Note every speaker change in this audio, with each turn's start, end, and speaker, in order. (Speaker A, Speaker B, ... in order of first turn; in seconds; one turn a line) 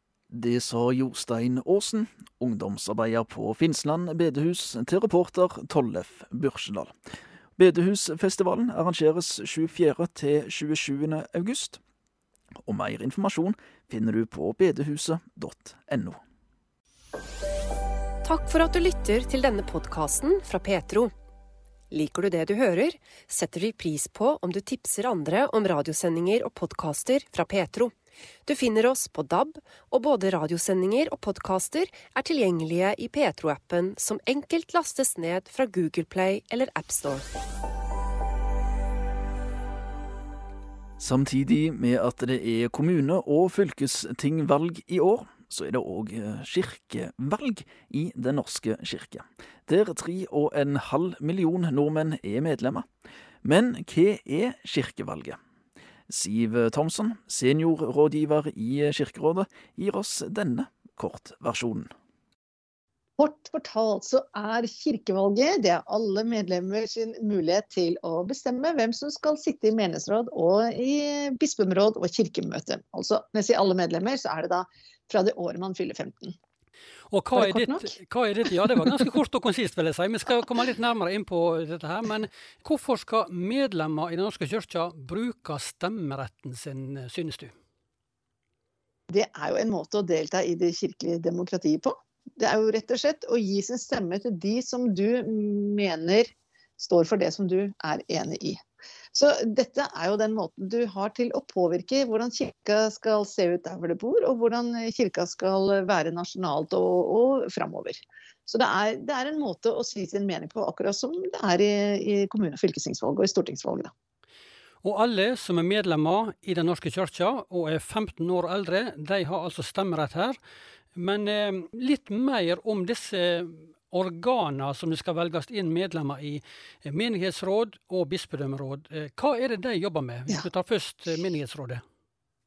Speaker A: 0.3-6.9
Speaker A: 7.6-11.8
Speaker A: 12.7-16.2
Speaker B: 18.2-21.1
Speaker B: 21.9-27.9
Speaker B: 28.5-37.3
Speaker A: 41.0-52.9
Speaker A: 53.4-55.4
Speaker A: 56.1-61.9
Speaker C: 63.2-76.4
Speaker D: 77.1-87.5
Speaker C: 77.3-77.9
Speaker C: 78.7-79.0
Speaker C: 89.1-98.6
Speaker C: 99.1-113.9
Speaker D: 114.8-120.4
Speaker D: 121.0-131.8